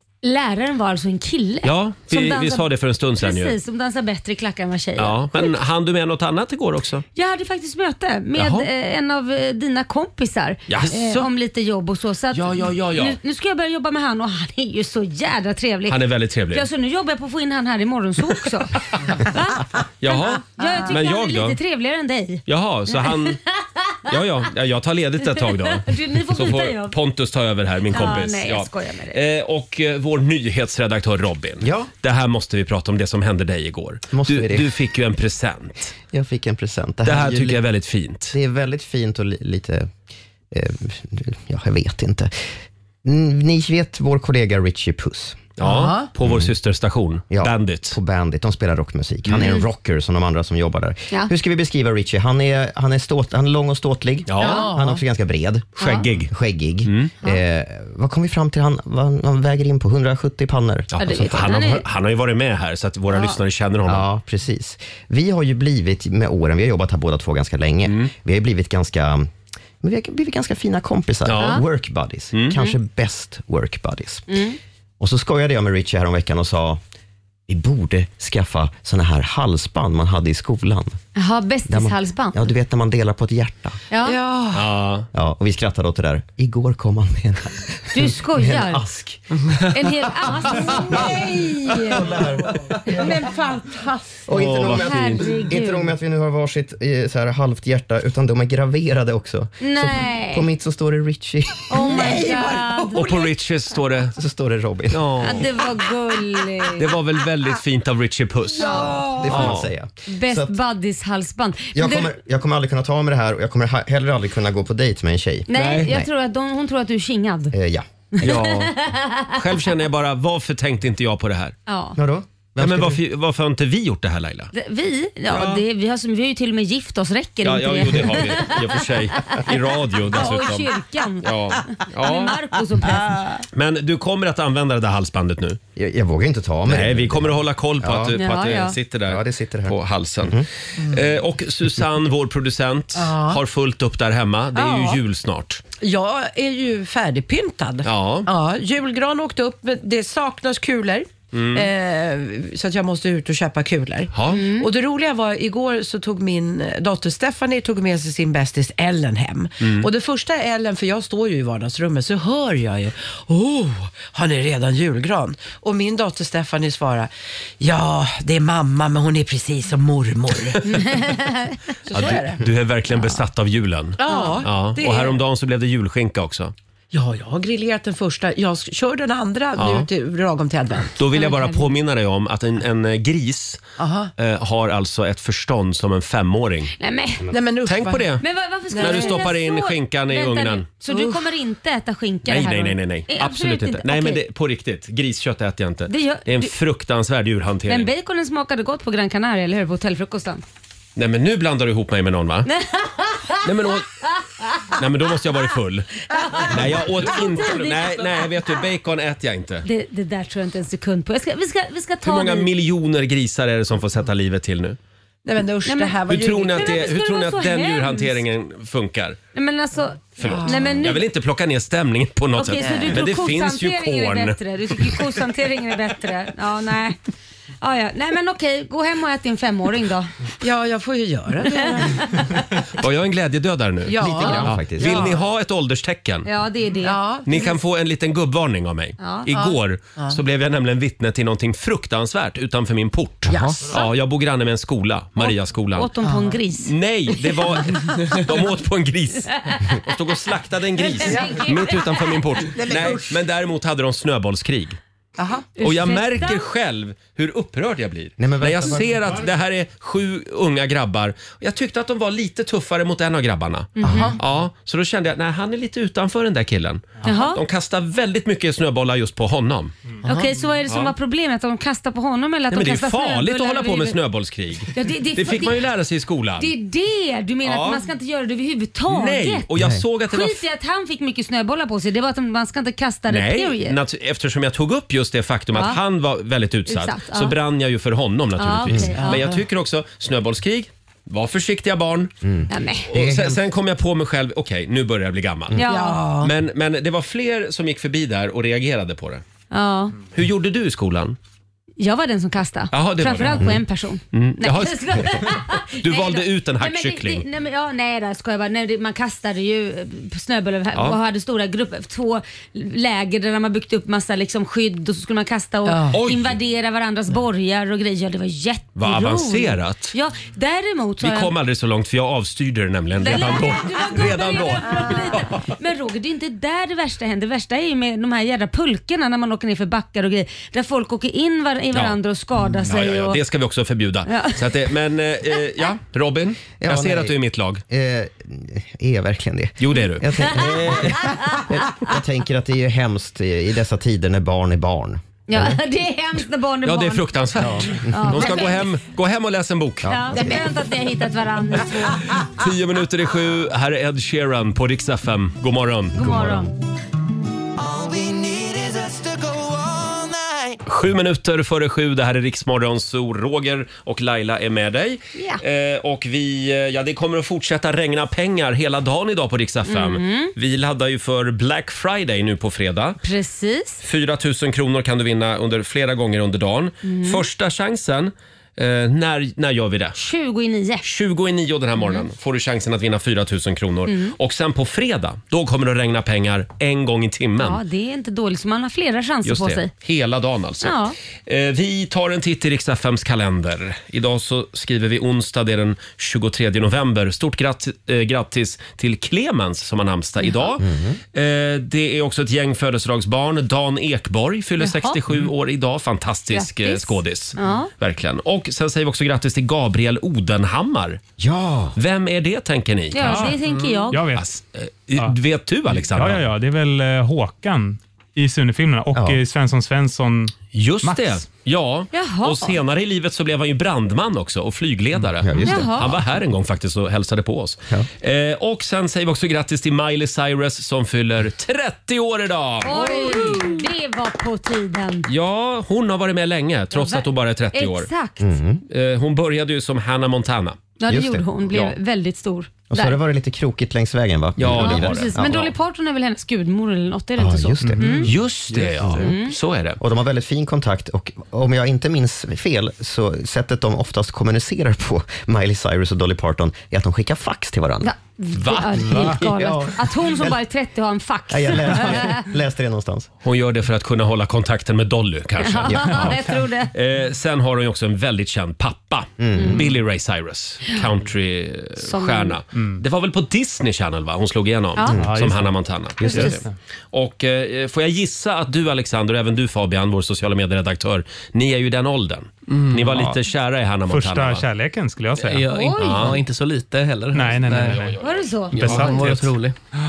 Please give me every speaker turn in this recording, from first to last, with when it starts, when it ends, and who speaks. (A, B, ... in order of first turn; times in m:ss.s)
0:00.2-0:02.6 A
0:01.6-0:03.5 B
0:03.2-0:05.5 A
0:05.0-0:07.1 B
0:07.2-0:16.0 A
0:08.4-0:08.7 B
0:10.7-0:11.3 B
0:12.3-0:13.2 B
0:15.9-0:16.7 B
0:16.5-0:24.1 A
0:20.0-0:21.6 B
0:22.5-0:23.4 B
0:24.1-0:35.9 B
0:25.4-0:26.9 A
0:27.9-0:29.2 A
0:31.6-0:31.9 C
0:34.1-0:34.8 C
0:36.1-0:37.6 C
0:37.0-0:38.4 B
0:38.3-0:39.9 C
0:40.5-0:42.3 C
0:43.0-0:45.4 C
0:45.6-0:48.0 B
0:45.6-0:46.1 D
0:46.2-0:46.5 C
0:47.3-1:01.6 C
0:49.3-0:49.5 B
0:54.3-0:54.7 B
0:54.4-0:54.7 A
0:54.4-0:55.0 D
0:55.8-0:56.3 B
0:55.8-0:56.1 A
0:56.8-0:57.1 B
1:01.0-1:04.1 B
1:01.0-1:01.8 A
1:03.1-1:03.4 A
1:03.8-1:14.3 C
1:07.8-1:08.1 B
1:11.2-1:11.6 B
1:11.4-1:11.6 A
1:12.3-1:12.6 B
1:14.3-1:14.6 A
1:15.0-1:16.8 C
1:17.5-1:21.0 C
1:21.1-1:22.4 A
1:21.7-1:23.8 C
1:23.9-1:24.2 A
1:24.0-1:24.8 D
1:24.5-1:25.1 B
1:25.1-1:29.4 C
1:27.9-1:28.8 A
1:29.6-1:32.0 A
1:30.4-1:33.2 C
1:32.9-1:34.3 D
1:34.3-1:42.2 C
1:34.3-1:35.3 B
1:34.6-1:35.9 A
1:39.6-1:40.5 A
1:41.7-1:43.2 A
1:41.8-1:43.2 D
1:42.9-1:44.1 B
1:44.1-1:45.4 C
1:44.9-1:45.4 B
1:45.2-1:46.8 A
1:46.8-1:49.7 B
1:48.6-1:49.0 A
1:48.7-1:49.2 D
1:48.8-1:50.5 C
1:50.1-1:52.1 A
1:51.8-1:56.1 C
1:55.5-1:57.6 A
1:55.5-1:55.9 B
1:57.5-1:58.5 C
1:58.2-1:59.4 A
1:58.2-1:58.7 B
1:59.3-2:01.5 B
2:01.7-2:02.0 A
2:02.0-2:03.0 C
2:02.6-2:04.5 B
2:04.5-2:09.4 A
2:05.3-2:05.6 B
2:07.4-2:12.4 B
2:10.1-2:13.2 A
2:13.5-2:15.6 B
2:15.8-2:18.2 C
2:16.7-2:25.6 B
2:18.2-2:18.8 A
2:19.0-2:20.4 C
2:20.8-2:21.1 D
2:23.0-2:23.4 D
2:24.5-2:25.0 D
2:25.8-2:50.8 D
2:27.8-2:28.3 B
2:31.3-2:31.7 B
2:34.1-2:34.4 B
2:34.3-2:34.7 A
2:39.6-2:39.9 B
2:50.6-2:51.6 A
2:51.9-2:52.4 D
2:51.9-2:56.5 B
2:54.0-2:55.2 D
2:54.1-2:54.4 A
2:56.9-3:01.5 D
2:59.6-2:59.9 B
3:01.0-3:03.6 B
3:03.8-3:04.1 D
3:04.2-3:06.7 B
3:06.8-3:07.3 A
3:07.3-3:08.2 D
3:07.6-3:10.7 B
3:08.2-3:14.2 A
3:08.7-3:09.3 D
3:10.9-3:11.2 D
3:12.3-3:17.9 B
3:15.9-3:16.5 A
3:17.7-3:20.4 A
3:21.0-3:22.5 B
3:22.5-3:23.5 A
3:23.4-3:23.9 B
3:24.7-3:29.6 B
3:26.1-3:28.3 A
3:29.6-3:32.5 A
3:32.0-3:34.8 B
3:35.2-3:36.9 D
3:35.6-3:38.2 A
3:36.1-3:39.2 B
3:39.4-3:41.0 A
3:40.2-3:45.0 B
3:40.2-3:40.6 D
3:42.4-3:47.0 A
3:47.6-3:50.1 A
3:50.4-3:52.3 D
3:51.6-3:52.2 A
3:52.8-3:56.3 B
3:53.9-3:55.2 D
3:54.0-3:55.1 C
3:56.2-3:57.0 A
3:56.8-3:57.6 D
3:57.2-4:05.9 B
3:59.0-3:59.3 A
3:59.3-4:00.2 D
4:03.3-4:03.6 D
4:03.3-4:03.6 C
4:05.2-4:06.7 A
4:06.0-4:06.4 D
4:06.6-4:14.8 B
4:07.7-4:08.2 D
4:09.3-4:09.8 A
4:10.8-4:12.2 A
4:11.0-4:11.8 D
4:12.5-4:13.2 D
4:15.2-4:15.5 D
4:15.6-4:16.4 A
4:15.6-4:30.0 B
4:18.2-4:19.2 C
4:23.8-4:24.1 A
4:23.8-4:24.1 C
4:23.9-4:24.1 D
4:27.0-4:27.4 A
4:30.0-4:34.0 A
4:30.7-4:30.9 B
4:32.5-4:36.5 B
4:34.7-4:35.6 A
4:36.4-4:39.4 A
4:37.4-4:37.9 B
4:38.9-4:40.4 B
4:39.6-4:39.8 C
4:40.1-4:43.8 A
4:43.1-4:52.1 B
4:45.5-4:45.8 A
4:46.7-4:47.4 A
4:48.4-4:49.2 A
4:49.0-4:49.4 D
4:52.2-4:53.4 C
4:52.5-4:52.9 A
4:52.9-4:55.6 B
4:55.6-4:56.0 A
4:55.7-4:56.3 D
4:56.2-4:59.2 B
4:59.5-5:00.0 A
5:00.1-5:01.2 B
5:01.8-5:21.3 A
5:02.7-5:03.6 B
5:04.1-5:07.2 B
5:15.7-5:16.0 D
5:15.9-5:16.4 B
5:18.8-5:19.9 B
5:21.0-5:25.4 B
5:23.0-5:33.2 A
5:31.7-5:32.0 B
5:32.5-5:37.6 B
5:34.1-5:34.4 A
5:36.6-5:37.2 C
5:37.7-5:45.6 C
5:39.6-5:41.0 B
5:41.0-5:41.4 A
5:45.3-5:47.1 A
5:46.6-5:50.0 B
5:47.4-5:48.3 C
5:47.7-5:48.7 A
5:49.8-5:50.5 C
5:49.9-5:52.1 A
5:52.2-5:56.2 B
5:55.9-5:56.5 A
5:56.0-5:56.5 C
5:57.6-6:00.1 E
6:00.6-6:13.0 B
6:05.2-6:05.4 A
6:09.6-6:10.3 A
6:13.0-6:13.8 A
6:13.8-6:20.0 B
6:16.8-6:17.2 A
6:20.0-6:20.8 A
6:20.8-6:27.6 B
6:21.8-6:22.0 A
6:23.9-6:24.1 A
6:27.4-6:29.7 A
6:29.2-6:51.0 B
6:30.6-6:30.9 A
6:40.2-6:40.5 A
6:40.6-6:41.0 C
6:44.6-6:45.0 A
6:46.3-6:47.7 A
6:51.2-6:51.8 C
6:51.8-6:53.4 B
6:52.9-6:54.0 A
6:53.0-6:53.4 F
6:53.9-6:54.3 F
6:54.1-6:56.2 B
6:55.8-7:01.2 F
6:58.9-6:59.2 C
7:00.5-7:13.5 B
7:01.9-7:02.6 A
7:05.2-7:05.9 C
7:05.5-7:05.9 A
7:12.6-7:15.1 A
7:15.1-7:17.9 B
7:16.7-7:18.3 A
7:18.2-7:18.6 C
7:18.7-7:20.6 B
7:20.8-7:23.0 A
7:20.9-7:21.2 C
7:22.7-7:25.5 C
7:24.4-7:25.5 B
7:24.6-7:28.1 A
7:27.2-7:29.1 C
7:27.6-7:28.0 F
7:28.0-7:29.8 B
7:29.0-7:29.3 A
7:29.8-7:37.9 C
7:37.8-7:42.2 A
7:38.4-7:39.2 B
7:38.8-7:40.4 C
7:41.3-7:43.1 C
7:43.2-8:04.4 B
7:45.4-7:46.7 A
7:45.7-7:46.0 C
7:49.2-7:49.7 C
7:49.4-7:49.6 A
7:51.8-7:52.4 A
7:54.9-7:55.2 C
7:54.9-7:55.5 F
7:56.0-7:56.4 A
7:56.0-7:56.5 F
8:02.5-8:03.1 G
8:03.9-8:05.5 F
8:05.2-8:07.9 G
8:05.5-8:06.0 A
8:05.8-8:06.2 B
8:07.1-8:07.9 F
8:07.6-8:08.8 B
8:08.0-8:08.6 A
8:08.5-8:09.6 G
8:08.6-8:09.3 F